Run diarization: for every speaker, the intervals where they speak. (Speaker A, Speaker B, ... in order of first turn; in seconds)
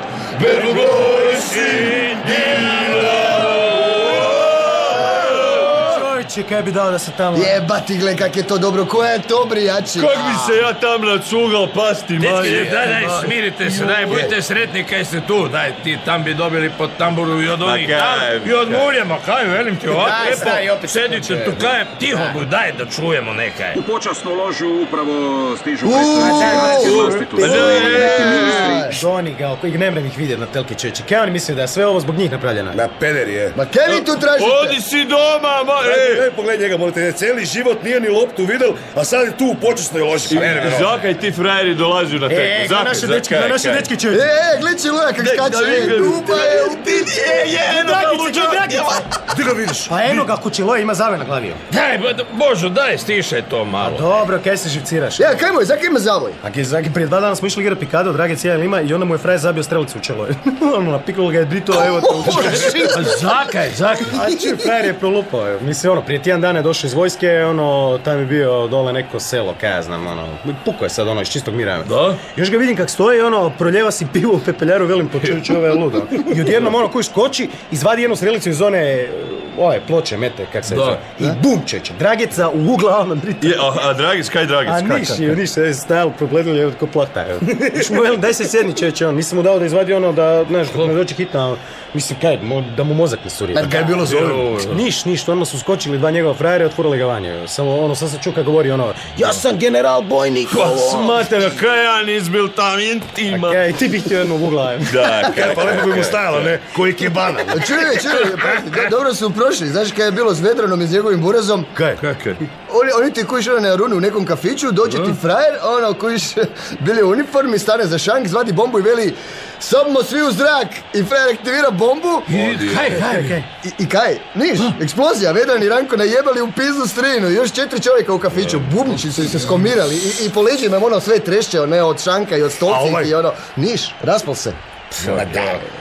Speaker A: 0.3-5.7, 9.9-13.3, 13.8-14.2, 17.6-18.9, 26.7-28.6, 33.9-36.3, 40.3-43.9, 45.2-49.0, 83.4-85.3, 94.0-94.8, 100.5-103.6, 104.8-106.6, 112.0-112.4, 122.3-122.9, 135.0-135.5
Speaker B: 5.5-7.6, 19.9-22.4, 26.2-32.8, 42.3-44.2, 47.3-49.1, 49.9-51.6, 53.8-55.4, 56.4-63.2, 64.1-83.8, 84.7-101.6, 103.3-105.3, 122.8-123.5
Speaker C: 7.3-10.4, 25.8-29.0, 33.5-34.8, 44.1-47.1, 55.2-56.4, 61.8-62.8, 93.5-94.4, 107.5-111.7, 112.7-122.3, 123.6-134.6
Speaker D: 12.2-23.8, 51.7-54.0, 62.8-64.1, 71.8-72.2, 80.7-81.0, 114.9-115.1, 122.3-123.3, 132.7-133.1
Speaker E: 23.7-28.9
Speaker F: 32.7-33.6, 35.8-41.0, 49.3-50.1, 105.2-107.8